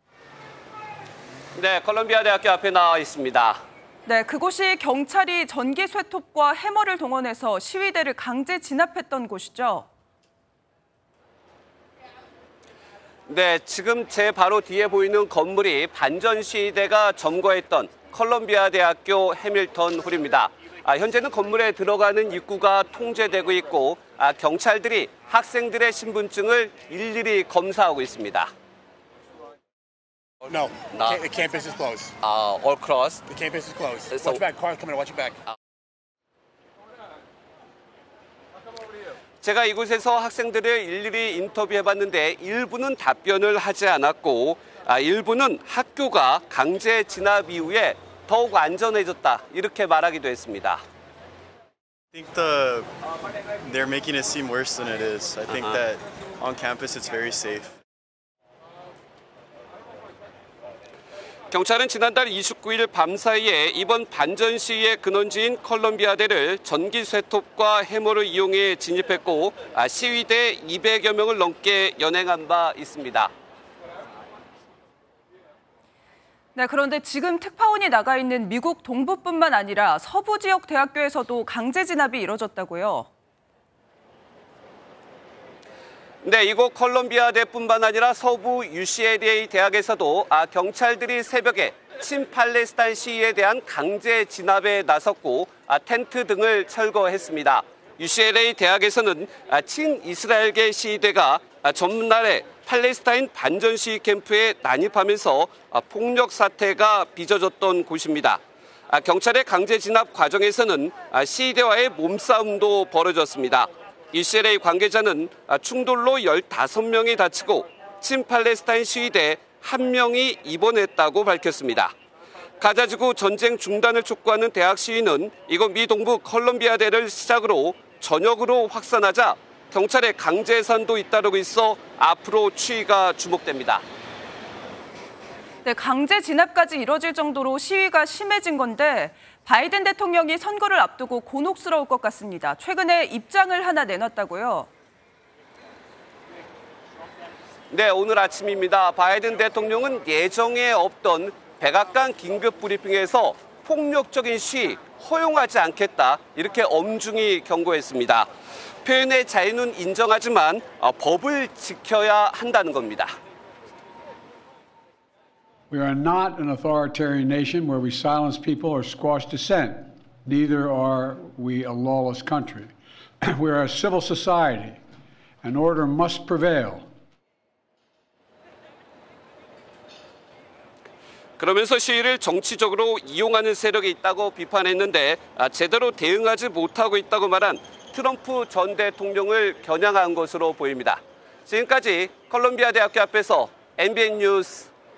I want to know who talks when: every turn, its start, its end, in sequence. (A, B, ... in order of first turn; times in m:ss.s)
0:01.6-0:03.6 A
0:04.1-0:09.9 B
0:13.3-0:28.5 A
0:30.5-0:32.1 C
0:30.9-0:31.2 A
0:32.2-0:33.2 A
0:33.3-0:35.4 C
0:39.4-0:50.8 A
0:52.1-0:52.9 D
0:53.6-0:57.7 D
0:55.5-0:55.8 A
1:01.5-1:13.3 A
1:16.6-1:23.1 B
1:26.2-2:01.9 A
2:02.6-2:13.8 A
2:15.6-2:24.7 B
2:27.7-2:38.3 A
2:38.8-2:43.2 A
2:45.7-2:54.8 E
2:55.4-2:56.9 E
3:01.4-3:14.7 A